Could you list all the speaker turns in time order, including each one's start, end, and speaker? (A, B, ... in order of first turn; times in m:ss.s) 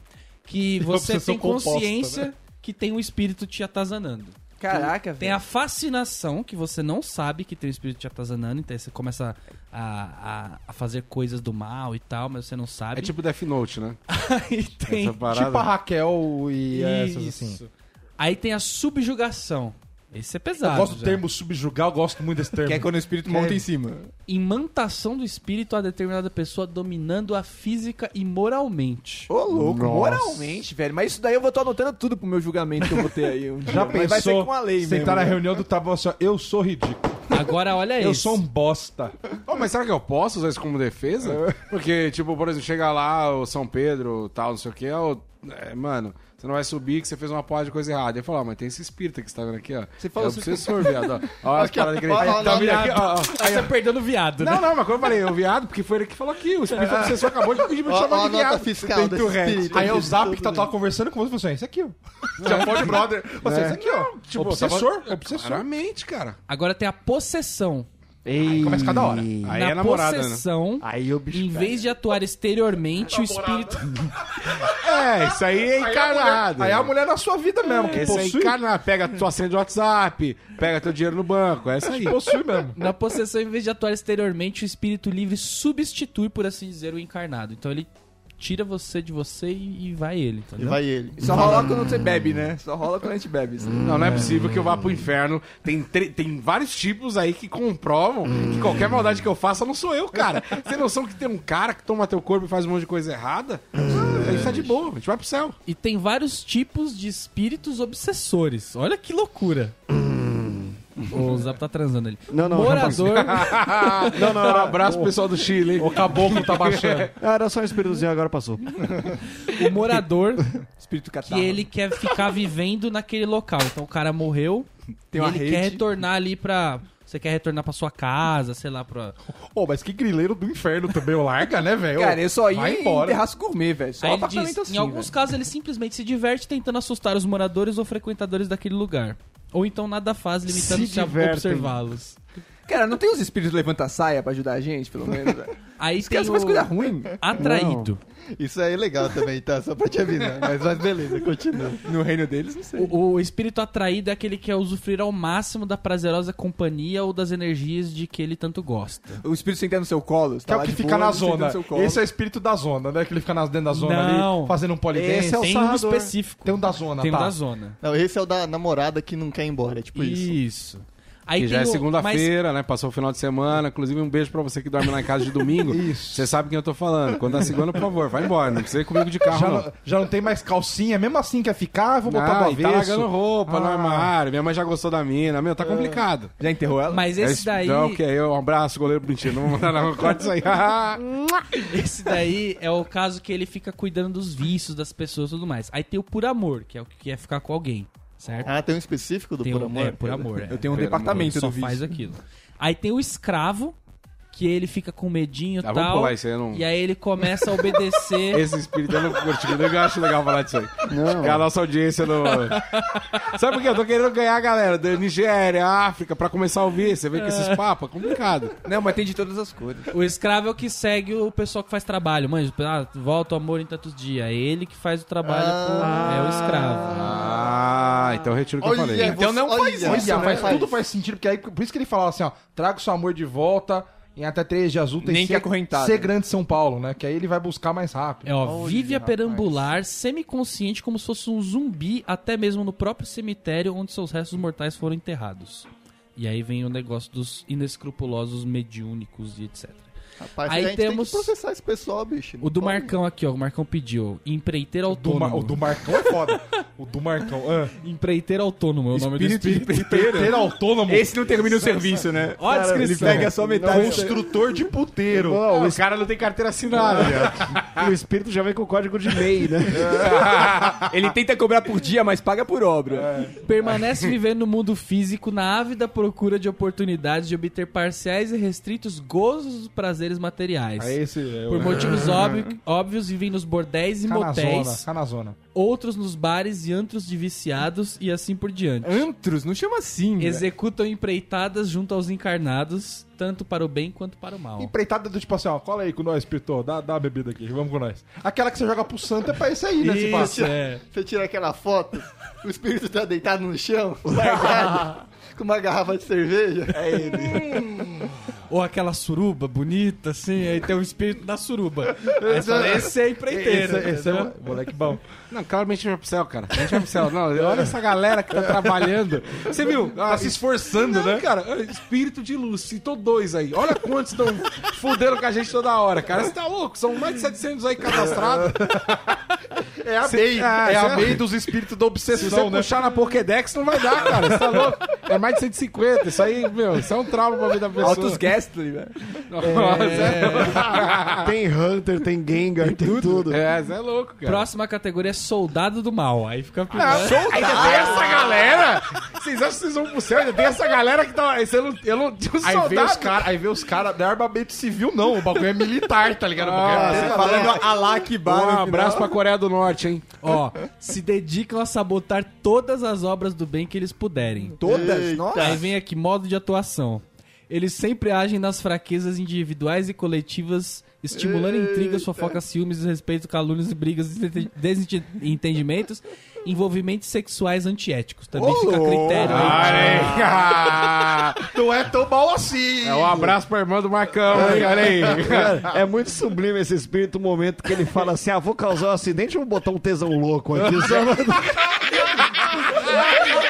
0:00.4-0:13.1 A
0:00.8-0:02.3 B
0:04.6-0:05.4 C
0:12.9-0:14.0 D
0:14.1-0:15.2 A
0:14.9-0:15.7 D
0:15.3-0:17.6 B
0:16.7-0:21.2 A
0:20.6-0:23.6 B
0:22.6-0:24.1 C
0:24.3-0:29.3 A
0:29.3-0:35.4 C
0:29.5-0:30.5 E
0:33.7-0:37.4 B
0:37.3-0:38.4 A
0:38.0-0:39.2 B
0:39.5-0:53.7 D
0:50.0-0:51.0 C
0:51.5-0:53.0 F
0:52.2-0:53.0 B
0:52.4-0:54.7 A
0:54.4-0:58.7 D
0:56.7-0:57.7 B
0:57.9-1:00.7 F
0:58.8-1:05.6 B
1:02.4-1:03.2 D
1:03.4-1:03.8 E
1:03.8-1:06.4 D
1:06.5-1:07.9 A
1:08.2-1:09.6 E
1:08.4-1:09.4 B
1:09.4-1:10.4 D
1:09.5-1:14.2 A
1:10.8-1:11.8 E
1:13.1-1:18.6 B
1:14.6-1:16.9 D
1:17.7-1:18.2 A
1:17.9-1:22.2 D
1:21.9-1:22.8 B
1:22.8-1:30.8 A
1:30.6-1:31.6 F
1:31.2-1:33.8 C
1:33.8-1:45.6 D
1:43.9-1:44.7 E
1:45.7-1:49.8 A
1:49.9-1:50.8 E
1:51.1-1:54.1 A
1:52.3-1:53.5 E
1:52.7-1:57.1 D
1:54.0-1:55.1 E
1:55.8-1:57.1 B
1:57.2-1:58.9 E
1:59.4-2:00.5 A
2:00.8-2:01.7 C
2:01.2-2:09.2 A
2:05.1-2:05.8 C
2:09.5-2:13.2 B
2:12.0-2:15.1 C
2:14.0-2:22.2 A
2:20.5-2:21.8 E
2:22.7-2:27.1 C
2:25.8-2:28.0 A
2:27.4-2:27.9 E
2:28.4-2:31.8 F
2:31.8-2:32.9 C
2:32.8-2:39.2 A
2:39.2-2:42.0 C
2:40.5-2:45.5 B
2:43.7-2:44.6 A
2:44.9-2:46.2 E
2:45.4-2:47.8 A
2:46.4-2:47.4 B
2:47.8-2:50.4 F
2:49.9-2:52.3 A
2:51.4-2:59.7 D
2:55.7-2:56.3 B
2:59.3-3:04.1 B
3:02.0-3:06.3 D
3:06.4-3:07.1 C
3:06.9-3:08.0 A
3:07.2-3:11.2 D
3:11.7-3:18.5 A
3:18.4-3:20.3 F
3:19.4-3:23.8 A
3:20.5-3:22.0 C
3:20.7-3:21.4 D
3:24.3-3:28.4 A
3:25.6-3:26.7 D
3:28.3-3:32.6 D
3:30.9-3:31.5 E
3:32.3-3:33.2 A
3:33.2-3:38.6 D
3:37.2-3:37.6 A
3:38.6-3:39.9 C
3:39.9-3:47.0 A
3:45.2-3:46.1 F
3:46.9-3:49.2 D
3:48.6-3:50.8 F
3:49.0-3:50.6 C
3:49.8-3:58.3 B
3:55.0-3:56.1 C
3:58.2-4:09.9 A
3:58.6-3:59.4 F
4:10.2-4:12.9 F
4:10.5-4:11.3 A
4:12.4-4:16.0 A
4:14.9-4:17.7 B
4:17.8-4:20.0 A
4:18.9-4:24.2 C
4:19.9-4:21.9 B
4:22.4-4:23.3 A
4:22.4-4:24.2 E
4:23.6-4:25.5 B
4:25.1-4:25.8 E
4:25.4-4:27.9 D
4:26.8-4:30.0 E
4:26.9-4:27.2 B
4:29.8-4:30.5 B
4:29.9-4:30.9 D
4:30.9-4:33.1 C
4:33.0-4:33.4 B
4:33.4-4:44.8 A
4:40.8-4:42.2 B
4:41.6-4:42.0 D
4:44.1-4:45.4 B
4:45.6-4:49.1 A
4:48.8-4:50.5 C
4:50.2-4:54.7 A
4:54.6-5:00.4 B
4:59.8-5:00.8 A
5:00.0-5:07.9 F
5:04.0-5:05.0 E
5:06.7-5:07.6 E
5:08.5-5:14.3 A
5:12.3-5:15.1 B
5:12.3-5:12.7 F
5:15.3-5:28.7 D
5:16.6-5:16.8 B
5:18.4-5:18.9 B
5:19.4-5:21.3 B
5:27.9-5:29.1 B
5:29.8-5:33.0 B
5:30.0-5:31.3 D
5:32.1-5:38.2 D
5:34.0-5:34.9 B
5:37.8-5:39.0 C
5:39.3-5:41.3 D
5:39.4-5:40.6 A
5:40.4-5:43.4 E
5:42.6-5:43.3 C
5:43.3-5:44.5 D
5:44.2-5:47.2 A
5:46.7-5:53.3 D
5:46.8-5:48.4 C
5:52.4-5:57.6 B
5:56.4-5:57.5 D
5:56.8-5:57.7 F
5:56.8-5:59.1 C
5:58.2-6:00.2 D
6:00.2-6:04.6 A
6:04.6-6:05.6 C
6:04.6-6:05.7 F
6:05.4-6:19.9 A
6:11.2-6:12.4 F
6:18.4-6:19.6 C
6:19.2-6:20.7 E
6:19.2-6:21.5 D
6:19.6-6:20.1 B
6:21.5-6:23.3 B
6:22.8-6:25.6 D
6:24.3-6:31.6 E
6:24.4-6:25.2 B
6:32.7-6:33.1 D